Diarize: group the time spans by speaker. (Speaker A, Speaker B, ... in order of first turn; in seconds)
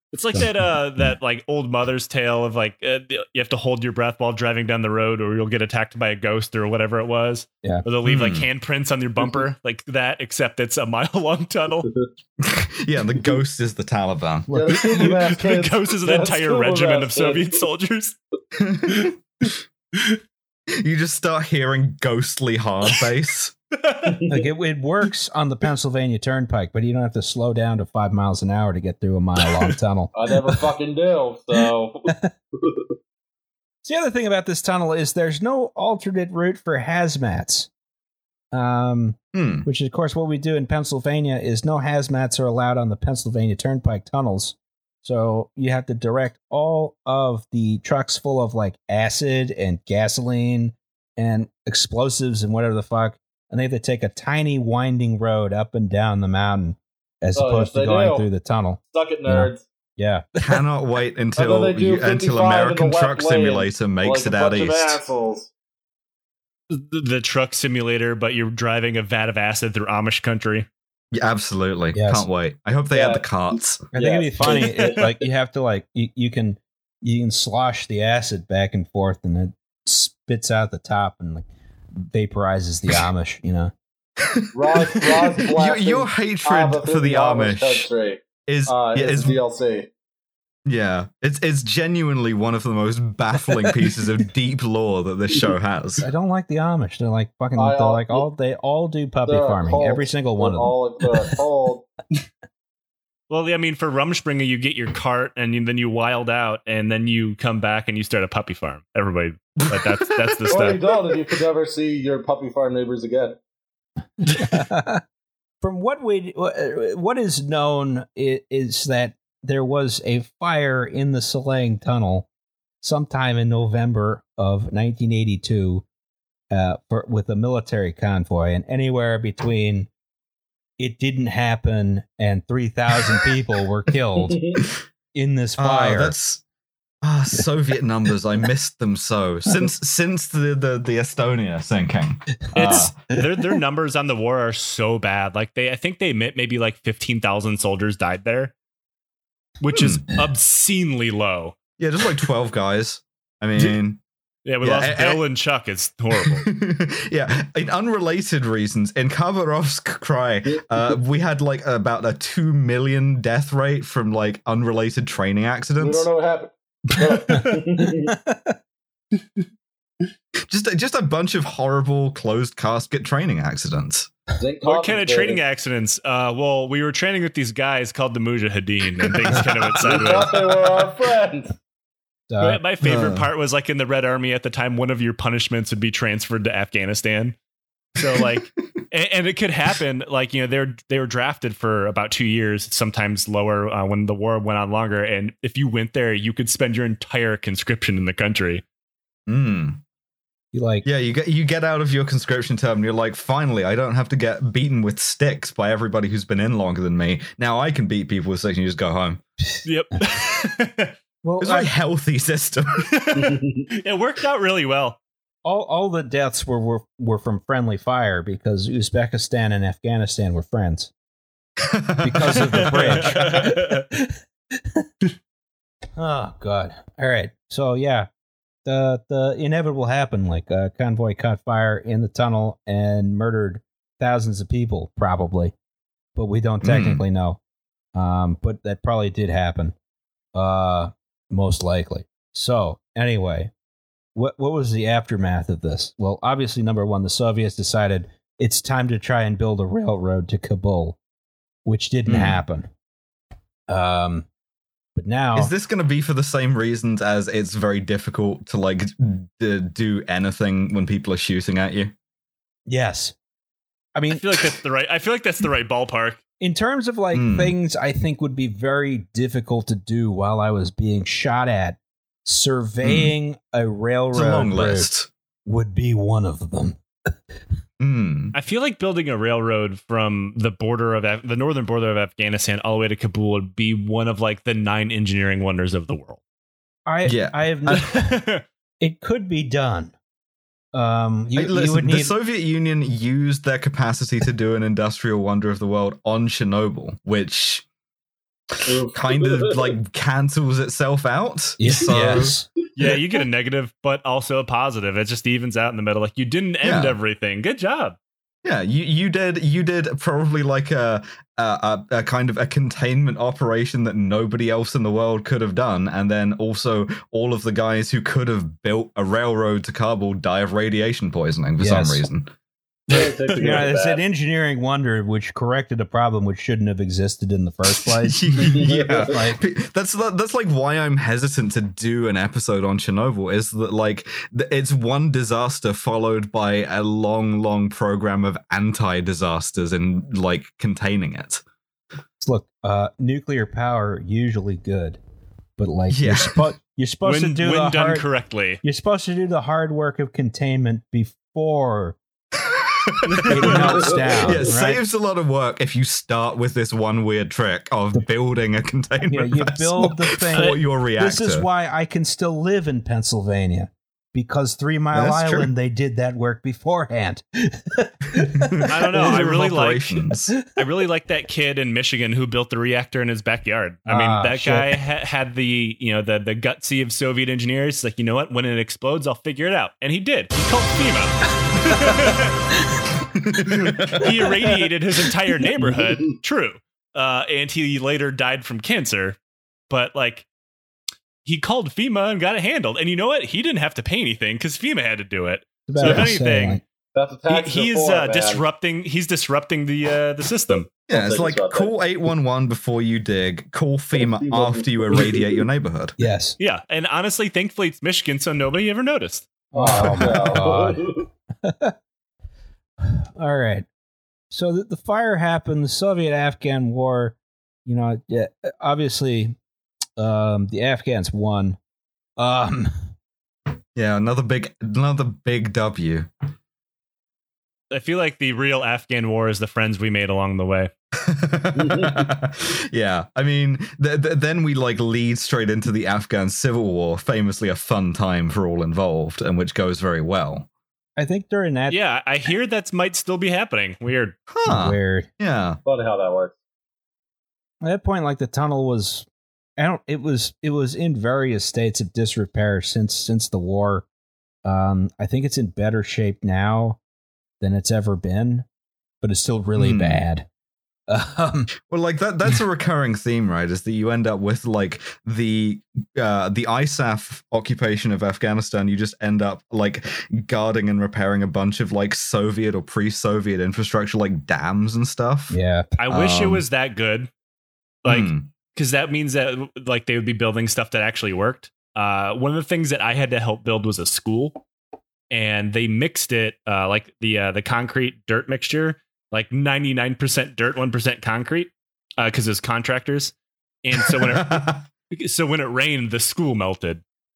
Speaker A: 0.1-11.9, 14.9-18.2, 23.7-24.2, 29.4-29.7, 66.7-70.7, 103.3-110.8, 142.5-148.5, 149.6-151.6, 154.4-156.5, 167.0-167.6, 174.6-180.7, 182.4-187.4, 188.0-198.6, 209.7-210.9, 212.9-215.0, 222.8-223.9, 264.1-266.2, 278.3-286.2, 287.7-288.4, 302.8-308.0, 322.9-323.6, 347.1-348.6, 368.7-370.0, 370.5-382.5, 383.9-389.2, 389.7-390.3, 391.2-396.6, 397.3-400.7, 406.4-410.2, 427.7-430.7, 441.7-444.2, 475.8-477.1, 477.8-484.4, 485.1-496.8
Speaker B: 8.0-8.5, 12.4-14.5, 18.6-19.2, 20.8-23.5, 39.3-39.7, 60.4-65.0, 71.1-73.8, 84.2-84.8, 85.3-87.9, 88.5-89.4, 90.7-96.1, 109.7-110.4, 135.6-136.4, 137.0-142.9, 149.8-150.0, 151.8-154.0, 154.6-155.2, 156.2-166.1, 170.5-174.1, 182.8-183.3, 199.3-199.8, 200.8-209.2, 211.4-212.9, 221.6-223.3, 236.6-237.0, 252.1-252.4, 255.4-261.9, 267.1-267.5, 272.8-273.1, 274.1-275.1, 277.8-278.3, 287.1-287.4, 291.4-297.6, 298.6-302.4, 306.6-307.0, 308.4-322.3, 328.1-341.4, 345.9-346.5, 352.4-361.5, 364.9-365.5, 368.2-370.3, 383.1-384.1, 395.8-396.1, 400.9-406.0, 423.8-426.1, 431.0-440.5, 444.3-445.6, 459.6-460.0, 461.6-475.4, 475.9-476.5, 477.9-478.3, 493.8-494.6
Speaker C: 14.5-15.1, 24.3-30.1, 33.8-37.7, 38.5-60.4, 71.9-72.3, 73.9-81.5, 82.1-83.7, 96.0-101.3, 114.2-115.0, 115.6-122.3, 122.8-125.8, 126.5-129.9, 130.8-134.4, 135.1-136.1, 167.3-168.6, 182.3-182.6, 200.5-200.9, 211.2-211.7, 215.4-220.9, 222.0-224.2, 226.0-228.1, 228.7-235.5, 236.2-237.4, 237.9-239.8, 240.3-243.5, 244.2-251.0, 251.7-252.7, 253.7-254.3, 254.9-255.5, 262.7-263.1, 263.9-264.3, 266.4-274.9, 275.5-276.8, 286.9-288.2, 288.8-289.9, 290.7-292.1, 301.6-302.5, 321.6-322.1, 323.4-329.4, 342.2-345.0, 345.6-348.1, 348.6-352.0, 353.2-354.8, 359.1-368.7, 373.9-374.8, 395.7-396.6, 406.0-406.4, 409.5-411.8, 412.8-413.7, 414.3-419.4, 420.0-421.6, 422.2-422.7, 441.0-441.8, 444.5-445.1, 447.6-449.1, 449.6-453.9, 454.4-456.8, 457.4-458.5, 459.0-460.3, 460.9-461.5, 475.3-475.7
Speaker D: 14.5-17.6, 24.1-24.4, 30.1-32.9, 57.4-58.3, 58.9-59.6, 61.4-65.5, 72.9-73.2, 73.9-75.2, 84.5-89.9, 97.5-98.2, 99.3-101.9, 110.5-113.4, 165.8-168.1, 174.4-175.4, 179.8-181.6, 213.2-213.6, 298.7-299.7, 322.9-324.0, 328.4-329.1, 353.4-354.4, 396.9-398.4, 400.9-401.7, 404.1-405.4, 409.5-411.0, 431.6-432.0, 445.6-446.3